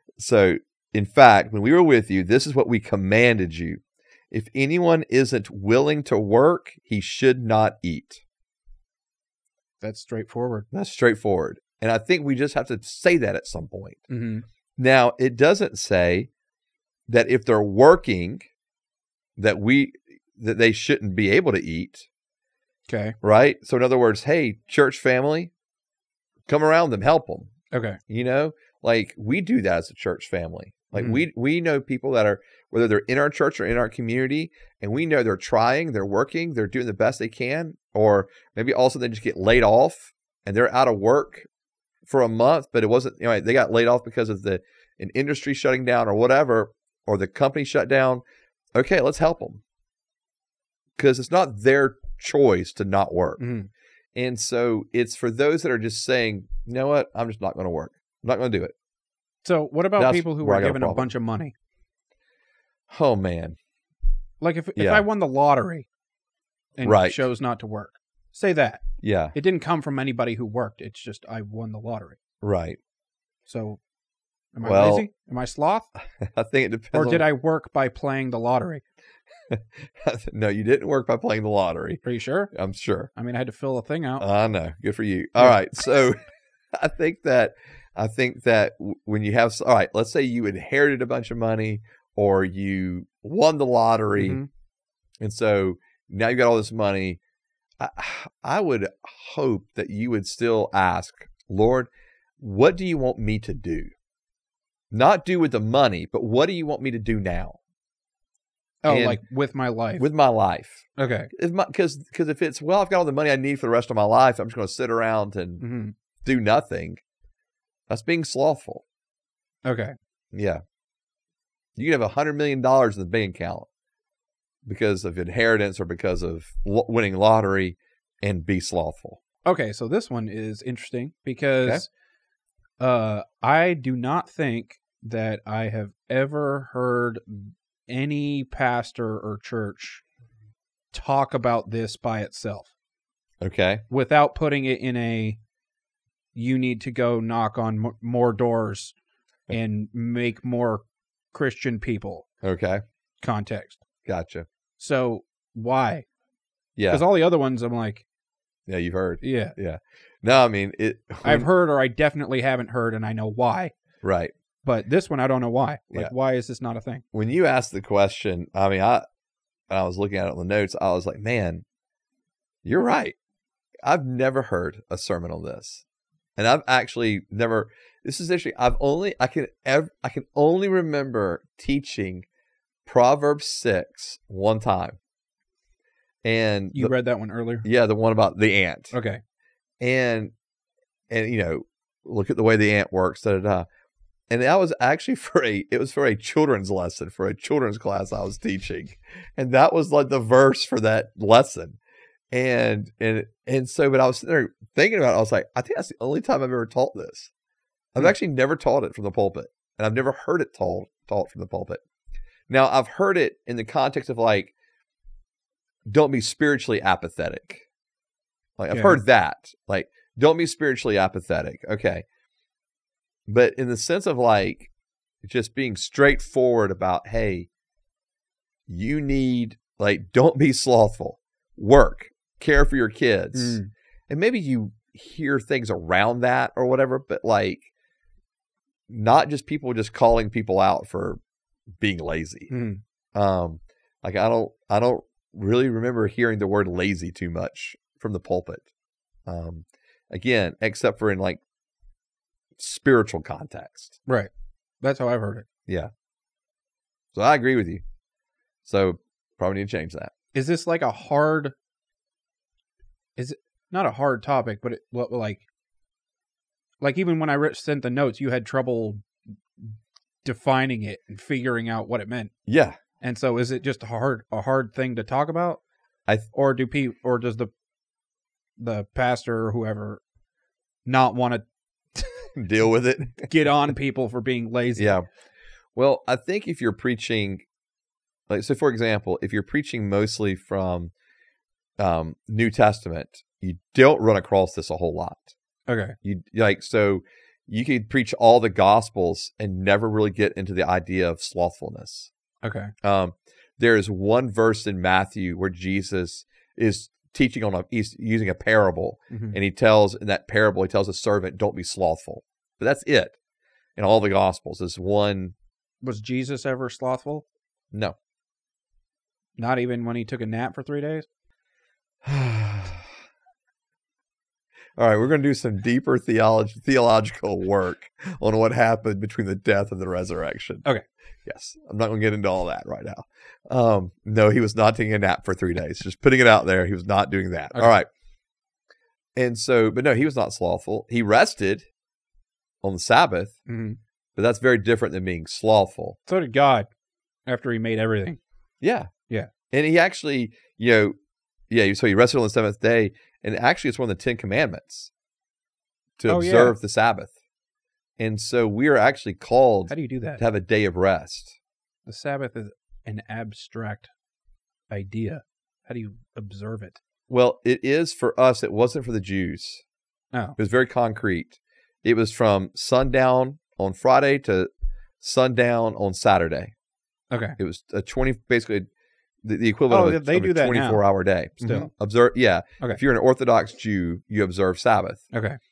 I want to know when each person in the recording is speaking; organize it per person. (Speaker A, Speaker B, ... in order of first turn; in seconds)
Speaker A: 0.2-8.2, 10.7-14.0, 14.8-16.3, 17.1-18.5, 19.4-22.1, 23.2-25.5, 26.5-27.5, 28.1-41.5, 42.1-48.2, 48.8-49.6, 51.0-53.4, 54.1-58.7, 60.0-61.1, 62.9-63.6, 64.8-65.0, 66.8-67.3, 69.0-69.3, 72.4-72.8, 74.6-75.1, 76.2-77.3, 79.5-83.1, 84.2-86.2, 86.7-94.4, 95.2-97.2, 97.8-101.9, 102.4-103.9, 104.9-107.6, 108.9-109.2, 110.0-115.6, 116.2-117.0, 117.9-118.8, 120.3-120.6, 121.8-123.7, 124.7-129.2, 143.4-143.8, 152.4-152.8, 154.1-154.5, 156.8-157.0, 158.7-161.5, 164.0-164.3, 167.1-169.0, 169.7-171.6, 172.7-173.2, 173.8-175.8, 176.4-182.3, 182.9-185.0, 186.2-186.9, 187.6-188.9, 189.8-190.3, 191.1-193.7, 194.3-201.8, 202.3-207.3, 207.9-211.8, 212.5-214.5, 215.9-217.7, 218.6-222.1, 223.3-224.7, 225.2-227.5, 228.7-237.7, 238.9-241.2, 241.8-242.5, 243.2-248.7, 249.3-251.4, 252.6-254.0, 257.1-257.8, 258.6-260.1, 272.5-272.8, 282.4-283.3, 284.8-285.1, 285.8-287.4, 288.3-290.9, 291.8-295.3, 296.0-302.1, 302.8-313.2, 313.8-315.4, 322.0-322.9, 324.8-330.7, 331.2-337.9, 339.2-341.7, 342.6-343.4, 344.2-346.0, 348.6-348.9, 349.5-351.0, 351.5-354.9, 356.0-357.1, 358.0-361.4, 367.1-369.6, 370.4-374.5, 375.0-376.5, 377.4-378.7, 379.2-385.0
Speaker B: 9.8-10.7, 14.1-14.4, 22.9-23.2, 27.7-28.0, 30.9-31.2, 53.4-53.7, 59.4-61.5, 64.4-65.9, 66.8-72.2, 73.5-73.8, 74.5-75.9, 76.9-78.8, 82.0-82.5, 83.1-84.2, 94.2-94.5, 108.8-110.0, 111.0-111.3, 115.6-115.9, 119.7-120.0, 129.4-131.9, 132.8-140.0, 140.9-142.7, 143.9-145.4, 146.3-148.9, 149.5-152.3, 153.2-153.8, 154.8-156.1, 156.9-158.1, 159.2-159.6, 161.2-163.7, 164.6-167.0, 186.7-187.7, 188.9-189.2, 218.7-219.0, 233.3-233.7, 242.5-242.8, 254.8-255.5, 260.3-261.6, 263.2-265.4, 266.8-269.0, 270.2-272.3, 273.0-275.6, 276.3-277.5, 278.6-280.0, 280.9-281.4, 282.0-282.3, 283.2-284.9, 295.7-296.0, 302.4-302.7, 309.1-309.4, 315.8-317.2, 319.4-321.1, 343.5-343.8, 346.1-346.7, 347.3-348.2, 356.1-356.6, 359.7-360.2, 361.9-363.9, 364.7-366.8, 377.1-377.4, 379.7-380.8, 381.4-381.7, 385.1-385.4